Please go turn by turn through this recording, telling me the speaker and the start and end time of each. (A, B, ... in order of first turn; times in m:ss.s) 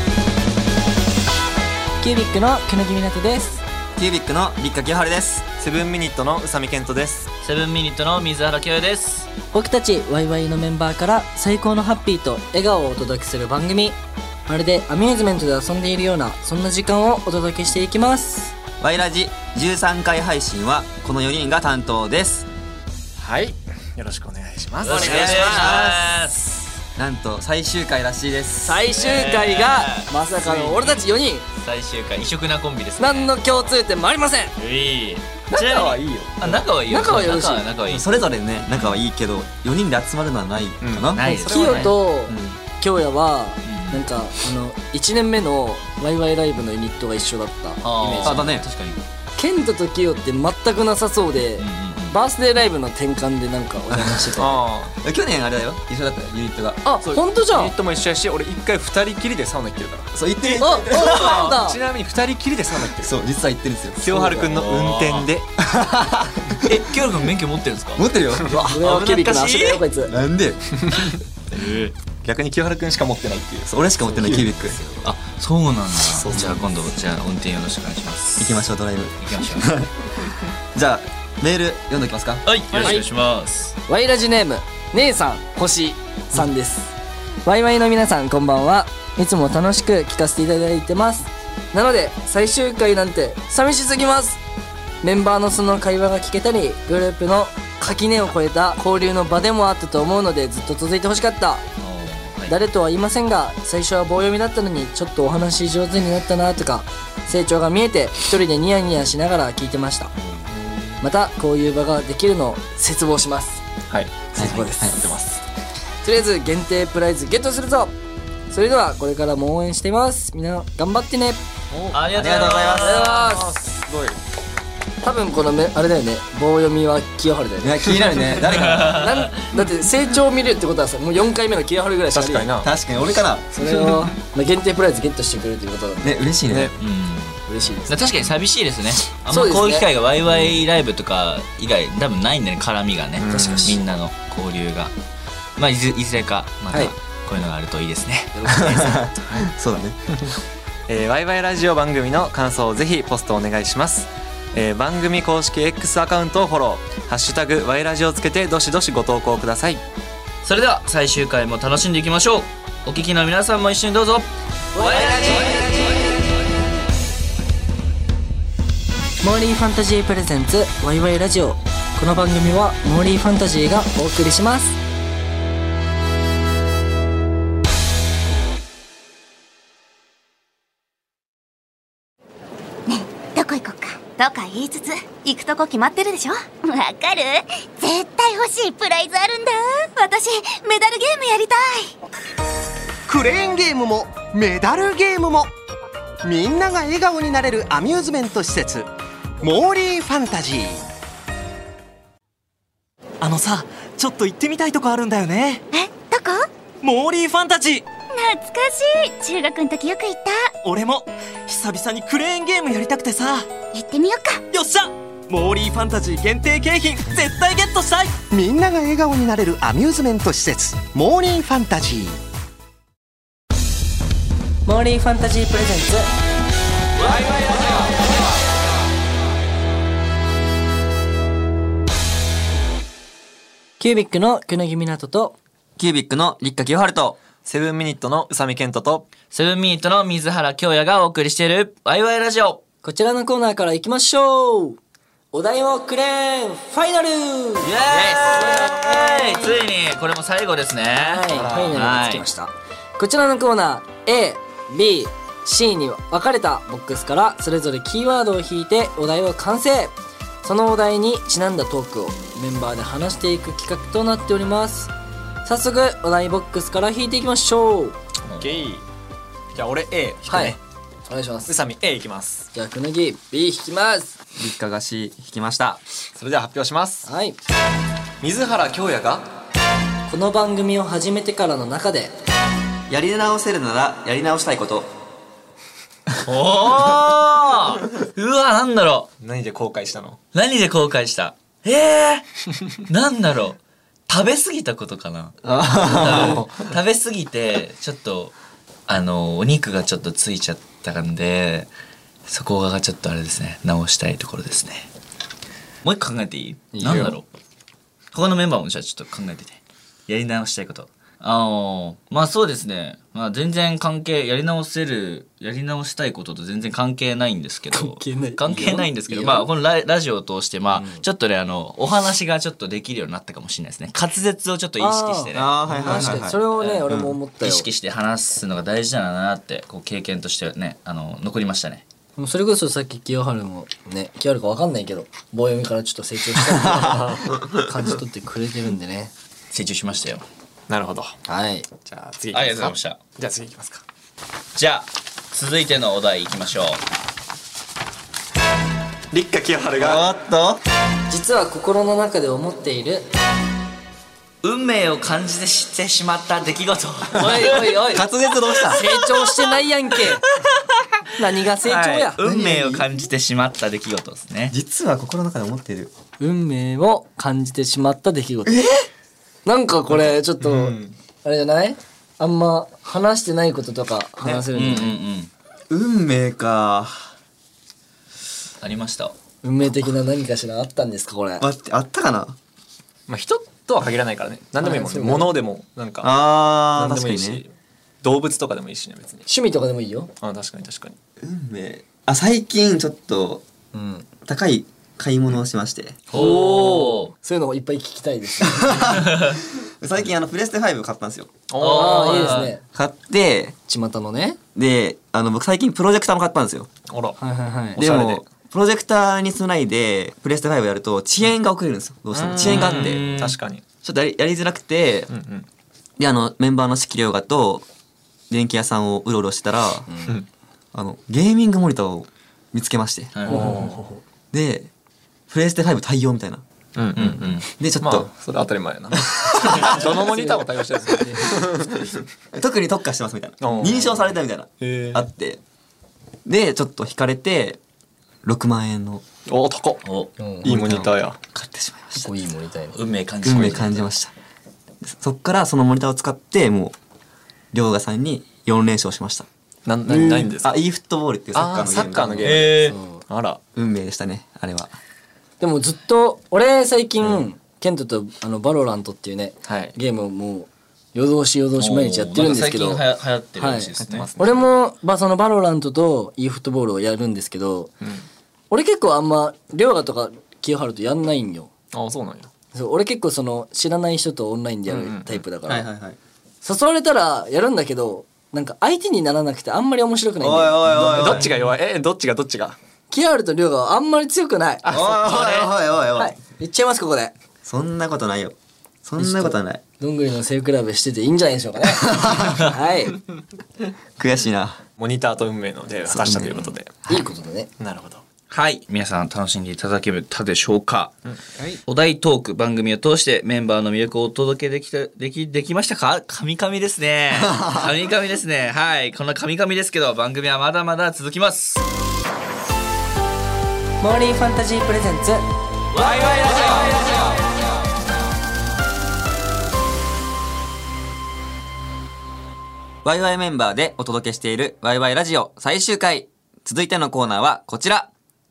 0:02.0-0:03.6 A
0:04.0-0:05.4 B
0:05.6-0:07.3 C
0:07.4-0:09.3 D
0:09.5-0:14.0 A
0:14.5-0:18.5 A
0:18.8-0:22.5 B
0:23.2-0:26.1 C
0:24.8-0:26.4 D
0:24.8-0:25.8 A
0:25.5-0:25.9 B
0:27.0-0:28.8 B
0:28.6-0:31.4 A
0:28.9-0:33.6 D
0:33.0-0:34.5 A
0:34.6-0:38.0 D
0:35.5-0:36.6 C
0:36.9-0:37.6 A
0:37.9-0:41.6 B
0:38.7-0:39.0 D
0:40.8-0:41.9 C
0:41.1-0:41.9 D
0:41.2-0:48.4 A
0:42.3-0:42.6 B
0:43.6-0:44.0 D
0:47.8-0:49.0 D
0:48.2-0:48.7 B
0:49.4-0:54.6 A
0:51.6-0:52.2 D
0:54.4-0:54.9 C
0:55.0-0:56.8 B
0:56.8-0:57.7 A
0:57.5-1:03.1 C
1:00.1-1:01.4 B
1:00.6-1:01.8 A
1:01.0-1:01.6 D
1:03.0-1:04.4 B
1:04.0-1:05.5 C
1:04.1-1:04.4 A
1:04.4-1:05.3 D
1:05.6-1:06.8 B
1:06.6-1:08.0 D
1:08.0-1:09.3 B
1:08.5-1:10.1 A
1:08.8-1:09.8 D
1:10.1-1:11.1 B
1:11.5-1:11.9 D
1:12.2-1:14.5 C
1:13.7-1:14.8 B
1:14.1-1:15.1 A
1:15.0-1:18.6 D
1:16.2-1:16.6 C
1:16.3-1:16.6 B
1:18.4-1:22.8 B
1:19.2-1:19.7 D
1:22.4-1:23.8 D
1:23.9-1:34.4 A
1:35.0-1:41.6 A
1:41.8-1:42.6 D
1:42.5-1:50.1 A
1:50.1-1:50.5 D
1:50.5-1:51.0 C
1:51.0-1:53.6 A
1:53.9-1:55.4 C
1:54.3-1:55.0 A
1:54.4-1:55.0 B
1:56.0-1:57.9 A
1:58.5-2:01.4 A
2:01.7-2:04.2 C
2:01.9-2:03.3 D
2:02.1-2:03.0 B
2:02.7-2:03.5 A
2:05.0-2:12.5 A
2:07.6-2:09.2 B
2:08.4-2:09.3 D
2:12.1-2:12.7 C
2:12.6-2:13.5 B
2:13.5-2:16.3 A
2:16.0-2:16.7 B
2:16.5-2:16.7 C
2:16.8-2:24.9 D
2:17.5-2:18.1 A
2:19.3-2:19.9 A
2:23.2-2:23.8 C
2:25.6-2:29.0 D
2:28.3-2:29.0 A
2:28.5-2:30.0 B
2:30.9-2:39.8 C
2:40.4-2:44.3 D
2:44.7-2:45.9 A
2:44.8-2:45.5 D
2:45.0-2:45.7 B
2:49.2-2:54.8 A
3:02.9-3:11.9 E
3:13.1-3:15.5 F
3:16.2-3:18.9 F
3:19.4-3:20.8 F
3:23.2-3:25.6 G
3:25.7-3:26.5 E
3:26.8-3:27.8 G
3:28.1-3:30.5 E
3:30.6-3:33.5 G
3:33.7-3:34.4 E
3:34.5-3:38.2 G
3:38.3-3:42.2 F
3:44.6-3:46.1 A
3:53.8-3:55.4 A
3:55.8-3:57.2 B
3:57.4-3:59.1 C
3:59.3-4:02.6 D
4:02.8-4:04.8 A
4:05.3-4:09.6 A
4:07.6-4:12.2 D
4:10.9-4:24.9 A
4:11.3-4:11.8 C
4:25.4-4:28.0 A
4:28.3-4:28.7 D
4:28.4-4:28.8 C
4:29.5-4:30.6 C
4:30.3-4:30.6 A
4:31.1-4:31.5 A
4:31.5-4:32.5 C
4:32.5-4:34.1 A
4:34.4-4:35.8 B
4:36.2-4:37.1 C
4:37.0-4:37.4 A
4:38.2-4:39.2 C
4:40.1-4:42.1 A
4:42.9-4:44.9 B
4:46.2-4:49.1 D
4:49.2-4:50.2 C
4:50.3-4:52.2 D
4:52.9-4:58.3 D
4:55.4-4:56.4 B
4:56.0-4:56.7 C
4:58.9-5:01.7 D
5:02.3-5:04.9 D
5:05.8-5:07.2 D
5:06.7-5:07.2 A
5:06.8-5:07.1 C
5:08.1-5:26.9 D
5:17.7-5:19.5 A
5:20.7-5:21.0 A
5:24.8-5:27.7 A
5:25.3-5:27.2 B
5:27.4-5:31.8 D
5:32.2-5:39.1 A
5:36.8-5:37.3 C
5:39.5-5:40.2 D
5:40.7-5:41.2 C
5:41.3-5:41.7 A
5:41.8-5:43.8 C
5:42.3-5:43.0 D
5:44.6-5:46.8 D
5:49.1-5:50.1 C
5:49.7-5:50.6 B
5:51.1-5:53.1 A
5:54.4-5:58.0 D
5:57.1-5:58.0 A
5:57.9-5:59.0 B
5:58.7-6:00.2 A
6:01.2-6:02.2 A
6:01.6-6:04.5 D
6:02.2-6:02.9 B
6:04.5-6:05.9 B
6:06.2-6:08.6 A
6:08.4-6:08.8 B
6:09.4-6:15.0 A
6:09.9-6:11.0 C
6:14.5-6:15.3 D
6:15.7-6:17.1 B
6:18.6-6:19.1 D
6:19.4-6:21.4 A
6:21.4-6:22.4 B
6:23.1-6:26.1 C
6:24.6-6:25.3 A
6:26.0-6:27.4 B
6:26.7-6:29.2 C
6:29.3-6:30.1 A
6:30.2-6:30.9 C
6:31.2-6:33.4 B
6:33.7-6:34.0 A
6:34.2-6:36.0 B
6:36.1-6:37.1 D
6:36.1-6:39.0 A
6:38.4-6:41.3 B
6:38.9-6:39.4 D
6:41.5-6:42.4 C
6:41.6-6:42.5 D
6:41.7-6:42.6 A
6:42.7-6:43.5 B
6:43.7-6:44.4 A
6:44.5-6:46.7 B
6:46.9-6:47.2 C
6:47.2-6:47.8 A
6:47.8-6:53.1 B
6:47.8-6:48.2 C
6:52.1-6:53.6 C
6:52.4-6:53.4 D
6:53.8-6:55.1 B
6:55.1-6:55.5 C
6:56.0-6:57.6 B
6:58.3-6:59.9 B
6:59.9-7:00.2 A
7:00.7-7:03.2 B
7:03.1-7:03.6 D
7:03.3-7:04.0 A
7:03.3-7:03.7 C
7:04.3-7:04.7 B
7:05.3-7:06.4 B
7:06.8-7:11.9 C
7:06.9-7:07.4 D
7:07.6-7:08.1 B
7:09.4-7:09.8 B
7:09.9-7:10.4 A
7:11.0-7:11.3 A
7:12.3-7:15.4 B
7:13.4-7:15.0 C
7:16.2-7:17.6 B
7:18.2-7:19.0 B
7:19.3-7:19.8 C
7:19.8-7:20.1 D
7:20.2-7:20.5 A
7:20.4-7:21.2 C
7:20.4-7:22.1 B
7:22.0-7:22.8 A
7:22.7-7:23.8 D
7:23.2-7:24.1 B
7:24.8-7:26.8 B
7:27.5-7:29.3 B
7:29.6-7:30.6 C
7:29.9-7:30.3 A
7:30.4-7:32.5 B
7:31.3-7:33.4 C
7:32.2-7:32.8 D
7:32.6-7:33.0 A
7:33.5-7:34.8 B
7:35.4-7:42.8 A
7:39.4-7:39.8 C
7:41.6-7:44.1 D
7:43.4-7:47.7 A
7:43.8-7:44.5 C
7:48.5-7:51.5 A
7:51.7-7:52.3 C
7:52.5-7:55.6 A
7:54.7-7:55.2 C
7:55.5-7:56.0 B
7:56.4-8:00.6 A
8:00.2-8:01.3 B
8:00.7-8:01.5 D
8:00.7-8:02.6 C
8:02.9-8:04.6 A
8:04.7-8:05.5 D
8:04.7-8:06.1 B
8:06.0-8:07.1 A
8:07.4-8:09.6 B
8:09.0-8:13.0 A
8:11.8-8:12.4 B
8:14.0-8:14.6 B
8:14.8-8:16.8 C
8:15.9-8:17.0 B
8:16.9-8:17.5 A
8:17.6-8:18.0 C
8:18.3-8:21.0 D
8:21.6-8:31.6 D
8:27.2-8:27.6 B
8:33.8-8:35.2 A
8:35.7-8:37.0 D
8:42.8-8:47.9 B